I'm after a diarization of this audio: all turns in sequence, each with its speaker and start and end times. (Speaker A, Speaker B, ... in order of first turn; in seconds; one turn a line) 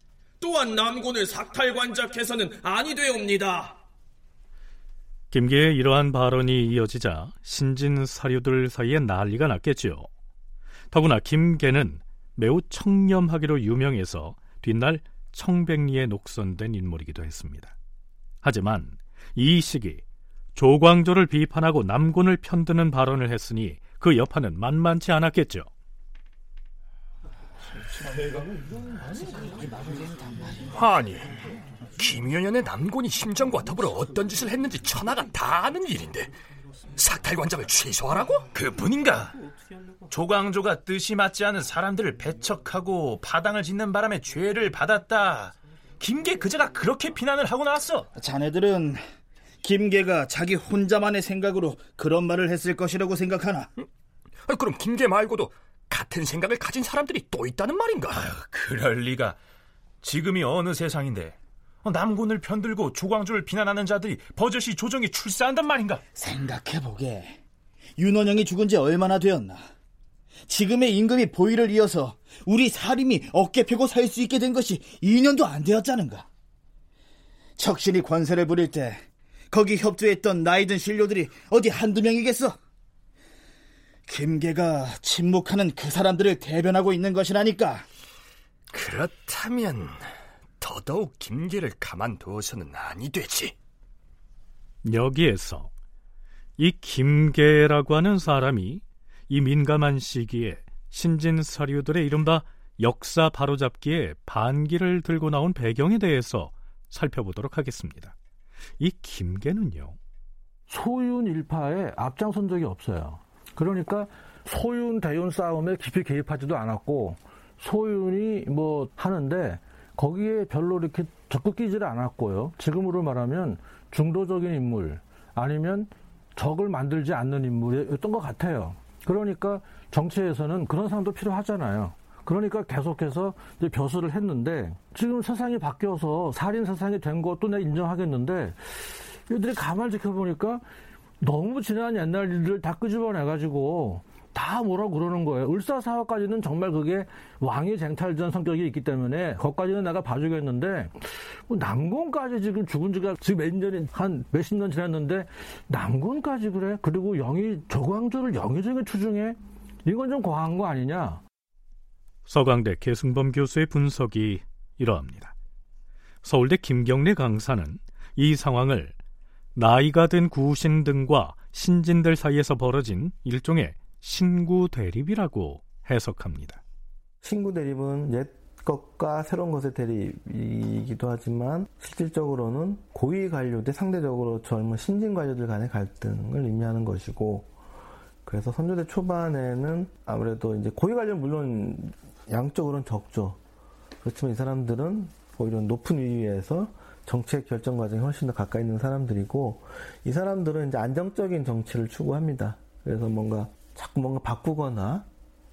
Speaker A: 0.4-3.8
Speaker B: 5.3-10.1
Speaker B: 10.9-17.7
Speaker B: 18.4-20.0
Speaker B: 20.5-25.7
Speaker C: 30.7-31.4
Speaker C: 32.0-36.3
Speaker C: 37.0-38.4
Speaker D: 38.4-39.4
Speaker D: 40.1-48.1
Speaker E: 48.1-49.0
Speaker E: 49.6-53.7
Speaker C: 54.5-58.2
Speaker D: 58.1-59.4
Speaker D: 60.0-66.0
Speaker E: 66.1-67.4
Speaker E: 68.0-69.7
Speaker E: 70.5-76.3
Speaker E: 77.6-82.6
Speaker E: 84.1-87.8
Speaker C: 88.7-90.0
Speaker C: 90.6-93.5
Speaker B: 94.8-95.7
Speaker B: 96.6-108.1
Speaker B: 108.8-110.0
Speaker F: 110.7-140.6
Speaker F: 141.2-161.2
Speaker B: 162.2-165.3
Speaker B: 166.2-168.9
Speaker B: 169.5-176.6
Speaker G: 177.2-187.5
Speaker G: 188.2-193.4
Speaker G: 194.0-205.1